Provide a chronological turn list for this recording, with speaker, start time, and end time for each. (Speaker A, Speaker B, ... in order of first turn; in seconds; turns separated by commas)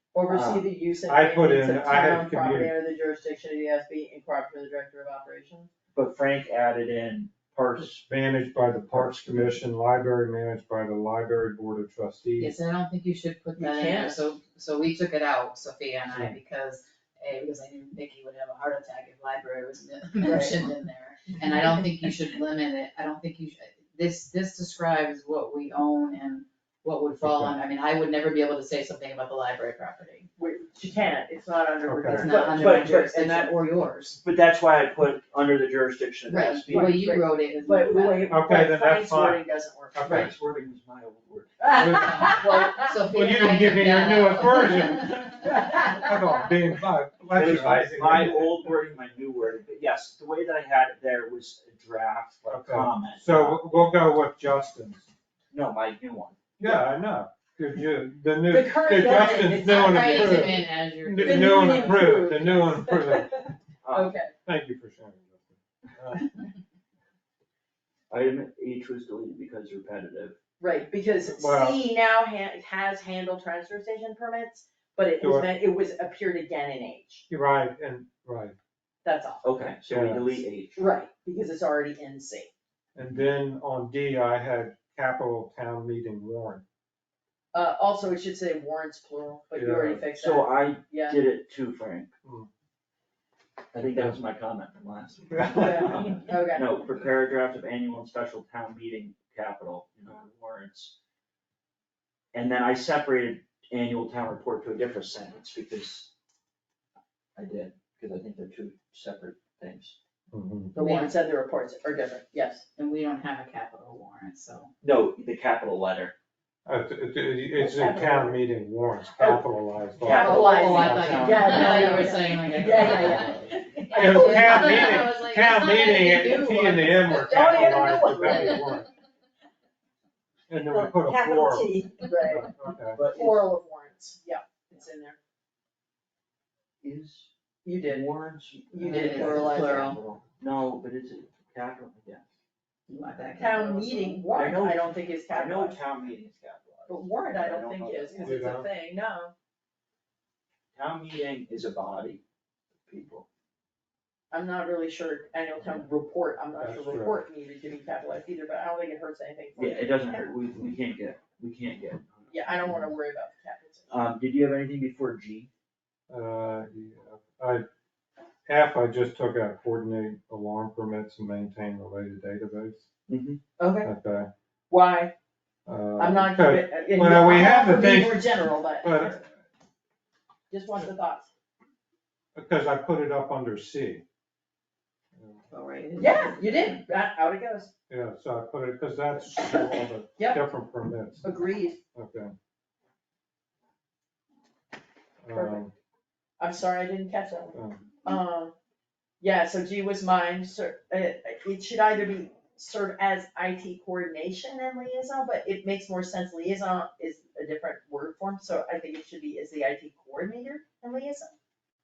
Speaker A: 0.1-5.7, Speaker B: 0.3-0.7, Speaker C: 1.1-2.7, Speaker B: 5.9-8.1, Speaker C: 8.0-12.5, Speaker B: 8.9-9.6, Speaker D: 12.4-30.3, Speaker A: 13.6-14.3, Speaker A: 20.2-20.6, Speaker C: 27.2-27.6, Speaker A: 30.4-33.0, Speaker C: 31.9-32.3, Speaker D: 32.1-34.2, Speaker B: 32.5-33.5, Speaker B: 34.2-37.1, Speaker D: 36.3-38.3, Speaker A: 36.7-40.3, Speaker C: 38.3-39.4, Speaker C: 39.9-40.3, Speaker B: 40.0-42.0, Speaker C: 41.8-42.3, Speaker A: 41.8-42.8, Speaker D: 41.8-45.7, Speaker C: 43.1-48.6, Speaker B: 47.3-53.9, Speaker C: 52.5-55.1, Speaker B: 55.5-56.8, Speaker C: 56.6-63.5, Speaker A: 58.5-60.6, Speaker D: 59.4-62.2, Speaker A: 61.2-64.3, Speaker B: 63.8-64.2, Speaker C: 64.4-66.3, Speaker B: 68.1-70.3, Speaker A: 70.6-77.2, Speaker C: 71.3-71.8, Speaker C: 75.2-75.5, Speaker C: 77.3-78.5, Speaker A: 79.0-79.6, Speaker B: 79.4-80.8, Speaker C: 79.9-80.4, Speaker A: 80.8-82.5, Speaker C: 82.9-86.6, Speaker A: 87.5-91.2, Speaker C: 89.5-90.1, Speaker B: 90.2-92.1, Speaker C: 92.2-92.5, Speaker B: 93.7-100.9, Speaker C: 95.3-95.9, Speaker A: 95.5-96.7, Speaker B: 102.3-106.1, Speaker B: 107.3-110.0, Speaker C: 110.3-110.7, Speaker A: 110.7-112.7, Speaker D: 110.7-111.2, Speaker D: 112.7-114.7, Speaker B: 114.8-116.1, Speaker C: 116.7-121.7, Speaker A: 117.5-118.4, Speaker A: 119.1-119.5, Speaker A: 120.0-125.1, Speaker D: 120.0-128.8, Speaker B: 120.7-122.1, Speaker C: 122.8-128.9, Speaker A: 125.8-128.7, Speaker C: 130.5-133.0, Speaker A: 130.7-132.5, Speaker B: 132.9-133.5, Speaker A: 133.1-135.2, Speaker B: 136.8-137.3, Speaker A: 137.6-138.1, Speaker B: 137.8-142.2, Speaker A: 138.7-139.9, Speaker D: 138.8-140.0, Speaker D: 142.9-144.3, Speaker A: 143.3-145.8, Speaker B: 144.3-148.4, Speaker A: 146.9-149.3, Speaker C: 148.2-148.7, Speaker B: 150.7-152.2, Speaker B: 152.8-153.2, Speaker A: 154.3-160.2, Speaker C: 156.6-157.1, Speaker B: 159.6-162.7, Speaker A: 162.3-163.9, Speaker B: 163.9-165.5, Speaker C: 166.1-167.7, Speaker C: 168.4-172.8, Speaker B: 173.1-173.4, Speaker A: 173.6-173.9, Speaker C: 173.8-174.3, Speaker A: 174.7-175.1, Speaker C: 175.7-178.3, Speaker A: 176.0-179.2, Speaker C: 178.8-179.3, Speaker A: 180.5-181.3, Speaker C: 182.3-184.0, Speaker C: 185.2-185.4, Speaker D: 185.5-186.8, Speaker A: 186.0-187.7, Speaker C: 187.9-191.2, Speaker A: 189.4-190.4, Speaker A: 191.2-191.8, Speaker C: 191.9-192.3, Speaker C: 195.2-195.7, Speaker A: 195.3-195.6, Speaker A: 196.4-198.5, Speaker C: 197.5-197.8, Speaker A: 199.2-211.3